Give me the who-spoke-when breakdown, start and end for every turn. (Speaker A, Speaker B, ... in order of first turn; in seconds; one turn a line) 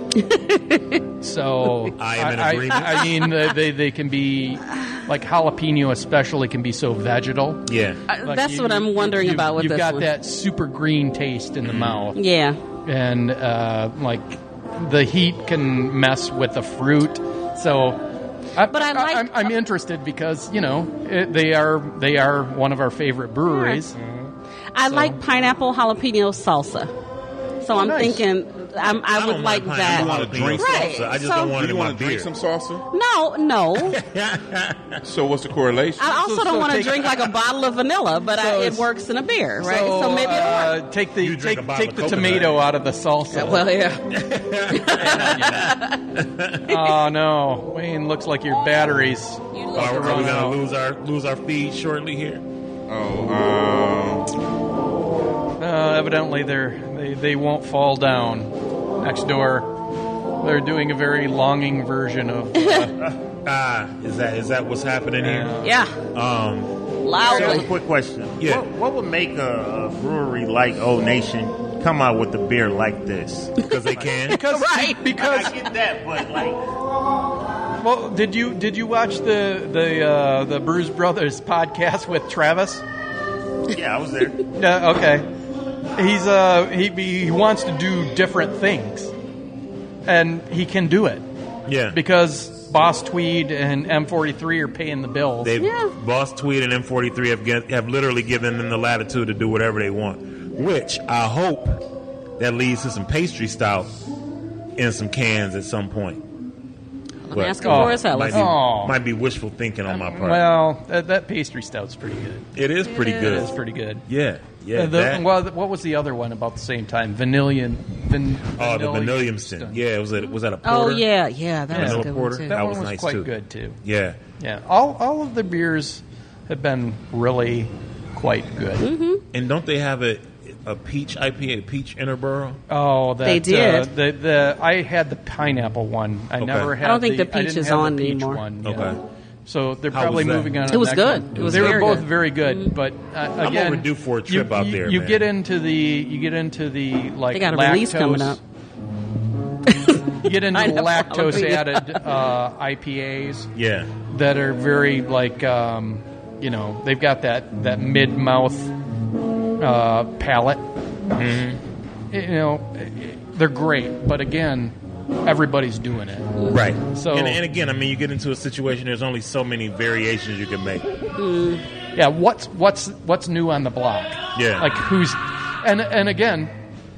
Speaker A: 0.2-1.0
Speaker B: 1.2-7.6
Speaker C: 2.0-3.1
Speaker C: 7.7-8.0
Speaker A: 8.1-10.1
Speaker B: 8.2-12.2
Speaker C: 11.6-12.0
Speaker A: 12.2-12.6
Speaker B: 12.8-18.0
Speaker B: 18.6-23.9
Speaker A: 18.7-19.5
Speaker A: 23.5-23.8
Speaker C: 24.0-24.3
Speaker A: 24.7-26.9
Speaker B: 24.9-25.2
Speaker A: 27.6-31.5
Speaker B: 27.8-28.2
Speaker C: 29.1-32.3
Speaker D: 29.9-32.9
Speaker A: 32.9-34.0
Speaker C: 33.8-35.0
Speaker D: 35.0-36.1
Speaker A: 36.0-40.8
Speaker B: 36.1-37.2
Speaker B: 38.4-38.9
Speaker B: 39.6-43.7
Speaker C: 41.2-42.6
Speaker A: 43.3-44.0
Speaker C: 44.1-46.7
Speaker A: 44.7-46.0
Speaker B: 45.0-45.7
Speaker B: 46.7-50.6
Speaker A: 49.5-50.3
Speaker C: 49.7-52.4
Speaker D: 52.9-54.3
Speaker B: 55.6-59.7
Speaker B: 60.4-62.9
Speaker A: 62.5-62.9
Speaker C: 63.5-65.5
Speaker B: 65.2-65.8
Speaker A: 65.6-65.9
Speaker C: 66.1-66.7
Speaker A: 67.0-67.7
Speaker E: 67.2-74.0
Speaker C: 67.3-67.6
Speaker C: 68.4-68.7
Speaker C: 73.6-74.4
Speaker A: 74.3-75.2
Speaker B: 74.3-75.6
Speaker E: 75.2-76.6
Speaker B: 77.8-82.8
Speaker E: 83.7-84.4
Speaker B: 84.5-85.3
Speaker B: 86.0-89.1
Speaker B: 90.1-91.2
Speaker C: 91.7-92.0
Speaker B: 91.9-95.5
Speaker C: 95.4-101.8
Speaker A: 95.6-95.9
Speaker C: 102.4-103.9
Speaker C: 104.8-106.2
Speaker A: 107.2-108.5
Speaker C: 107.3-110.5
Speaker B: 107.6-109.0
Speaker B: 109.9-112.6
Speaker C: 112.6-113.5
Speaker A: 112.9-113.5
Speaker B: 113.1-114.0
Speaker C: 114.1-115.3
Speaker B: 114.7-119.8
Speaker C: 118.6-121.0
Speaker A: 120.7-122.5
Speaker C: 121.7-123.3
Speaker B: 121.7-123.8
Speaker C: 123.8-124.2
Speaker B: 124.4-128.9
Speaker A: 128.8-129.2
Speaker C: 129.3-132.6
Speaker B: 132.7-148.4
Speaker A: 133.2-133.9
Speaker C: 136.4-136.7
Speaker A: 136.8-138.4
Speaker C: 138.6-139.0
Speaker C: 139.9-140.6
Speaker A: 140.7-142.7
Speaker C: 141.4-141.9
Speaker C: 143.4-145.2
Speaker A: 147.3-148.4
Speaker A: 149.7-152.0
Speaker B: 150.2-153.5
Speaker C: 153.6-153.9
Speaker B: 154.1-158.7
Speaker B: 159.6-160.6
Speaker C: 161.1-161.6
Speaker B: 162.1-166.3
Speaker C: 166.5-170.9
Speaker B: 166.9-167.4
Speaker A: 171.2-171.6
Speaker B: 171.9-176.5
Speaker C: 174.3-174.7